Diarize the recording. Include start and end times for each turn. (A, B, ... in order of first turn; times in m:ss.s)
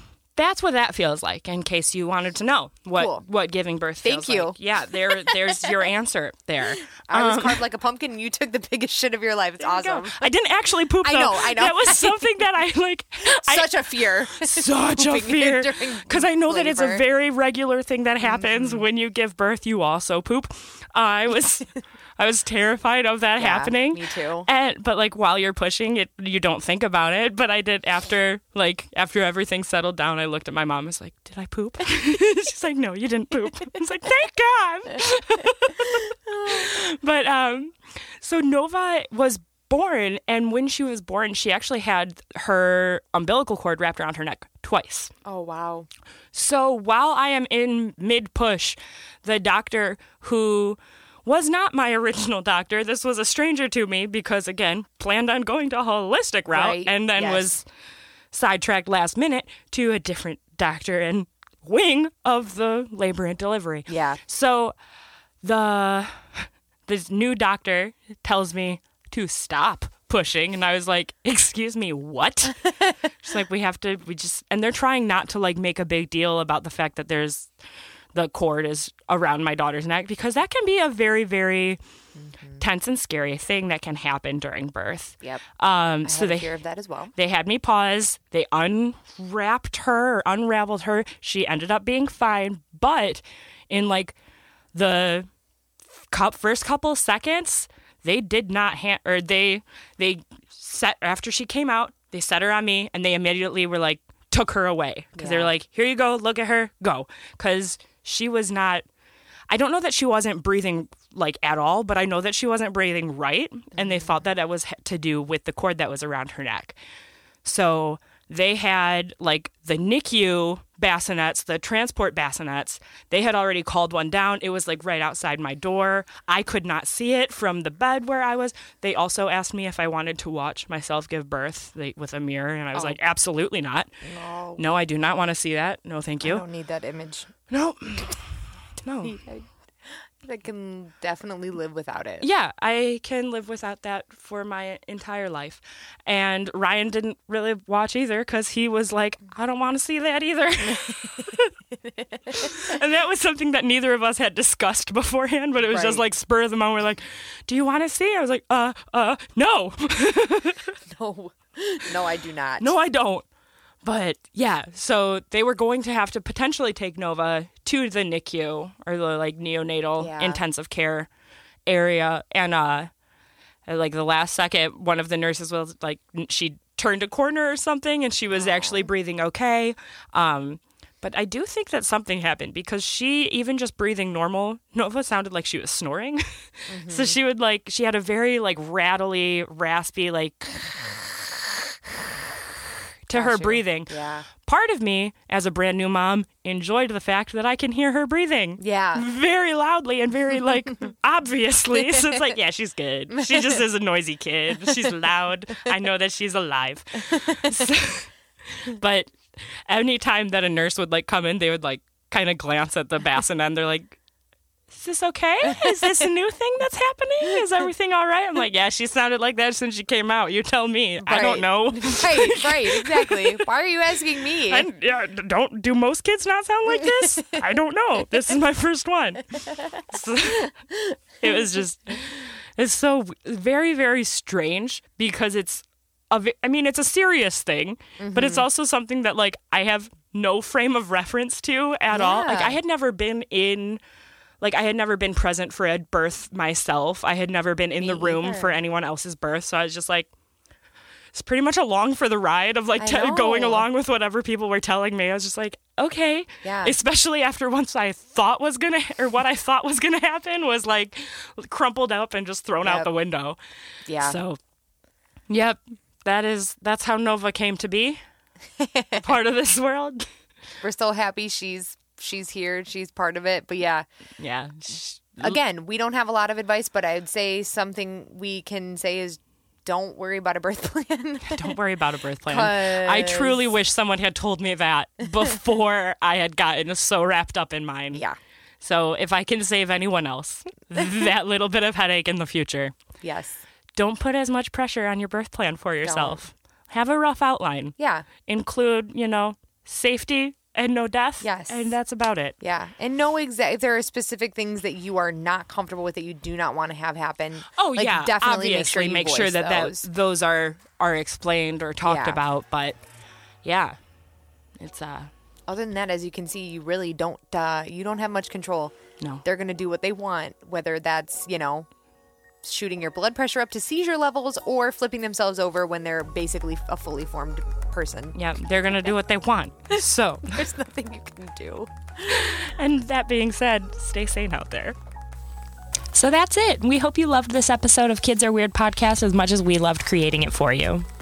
0:00.4-0:07.6 A
0:03.0-0:03.2 B
0:04.0-0:05.8 B
0:07.1-0:10.3 B
0:09.6-0:13.8 A
0:11.0-0:12.2 B
0:13.2-0:17.0 B
0:14.3-0:45.1 A
0:18.2-0:18.8 B
0:23.4-0:24.5 B
0:36.3-0:36.7 B
0:45.2-0:45.9 B
0:46.3-0:57.6 A
0:56.5-0:57.5 B
0:58.3-1:04.8 A
1:03.9-1:04.2 B
1:05.4-1:17.5 A
1:18.1-1:21.8 A
1:22.2-1:22.6 B
1:22.6-1:26.5 A
1:26.0-1:27.1 B
1:27.2-1:34.2 A
1:34.7-1:35.3 A
1:36.1-1:48.8 A
1:45.2-1:45.5 B
1:49.5-1:56.8 A
1:53.8-1:54.1 B
1:57.4-2:13.9 A
2:14.0-2:14.6 B
2:14.6-2:16.4 A
2:16.2-2:17.3 B
2:17.5-2:18.2 A
2:18.8-2:19.2 A
2:19.0-2:19.5 B
2:20.2-2:22.3 B
2:22.2-2:31.6 A
2:32.2-2:32.7 B
2:32.3-2:40.8 A
2:35.6-2:36.0 B
2:40.9-2:42.7 B
2:42.6-2:43.3 A
2:43.8-2:51.1 A
2:50.0-2:50.4 B
2:51.7-2:52.9 A
2:53.7-3:10.8 A
2:58.4-2:58.9 B
3:06.7-3:07.2 B
3:13.1-3:34.0 A
3:13.1-3:14.3 B
3:18.6-3:19.1 B
3:23.2-3:23.6 B
3:27.2-3:27.6 B
3:34.7-3:43.4 A
3:35.5-3:35.9 B
3:41.0-3:44.7 B
3:44.4-3:50.6 A
3:47.1-3:47.4 B
3:51.2-4:03.8 A
3:58.0-3:58.5 B
4:01.9-4:02.6 B
4:04.4-4:10.1 A
4:07.8-4:08.5 B
4:11.1-4:23.4 A
4:12.8-4:13.7 B
4:16.4-4:16.8 B
4:22.6-4:22.9 B
4:23.9-4:24.2 B
4:24.0-4:24.4 A
4:25.3-4:28.0 A
4:28.6-4:29.1 B
4:29.0-4:30.1 A
4:30.6-4:33.8 B
4:34.2-4:35.4 A
4:34.8-4:41.6 B
4:41.3-4:48.0 A
4:42.3-4:43.5 B
4:48.6-4:52.8 A
4:53.0-4:53.4 B
4:53.8-5:02.4 A
4:55.8-4:56.2 B
4:57.8-4:58.1 B
5:01.2-5:01.8 B
5:02.4-5:09.8 B
5:07.5-5:12.8 A
5:11.8-5:12.2 B
5:13.4-5:13.8 A
5:14.6-5:15.1 A
5:15.5-5:21.7 B
5:22.4-5:28.2 B
5:28.2-5:30.4 A
5:29.7-5:32.2 B
5:32.0-5:34.8 A
5:35.9-5:40.9 A